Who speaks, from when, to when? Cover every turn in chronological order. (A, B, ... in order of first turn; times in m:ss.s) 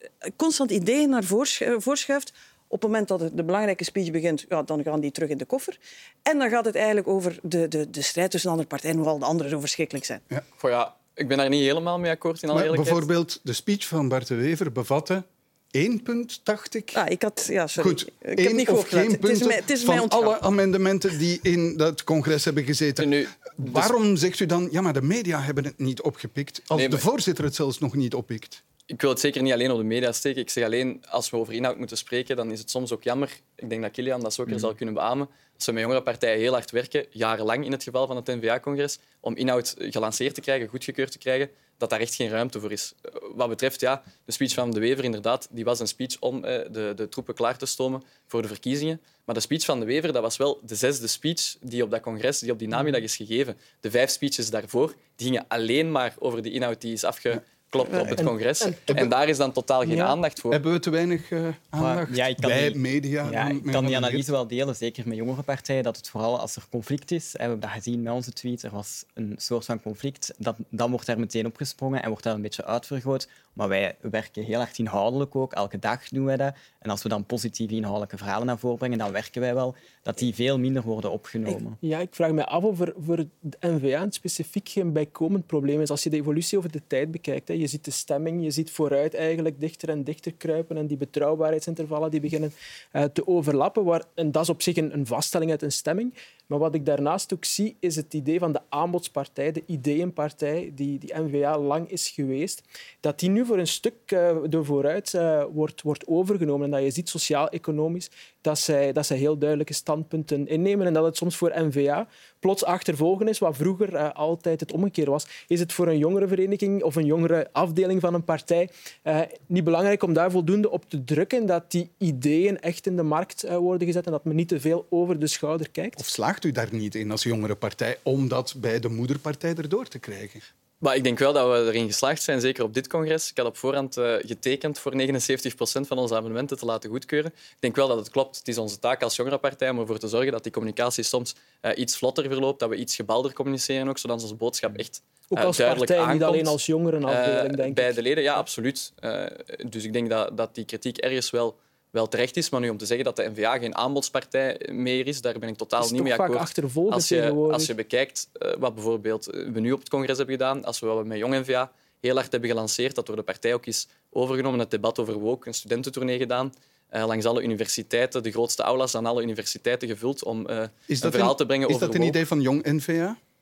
0:00.3-0:10.2 A
0:10.6-0:13.0 B
0:12.5-0:17.0 C
0:16.9-0:20.4 A
0:17.8-0:28.6 C
0:23.0-0:23.9 B
0:26.7-0:27.0 B
0:28.9-1:00.6 B
0:52.7-0:53.0 D
0:58.2-0:58.8 D
0:59.8-1:00.2 D
1:00.5-1:04.2 C
1:01.8-1:21.8 E
1:21.5-2:06.0 D
2:06.0-2:10.4 C
2:10.8-2:52.2 B
2:25.3-2:28.0 D
2:35.8-2:37.7 D
2:50.9-2:53.2 C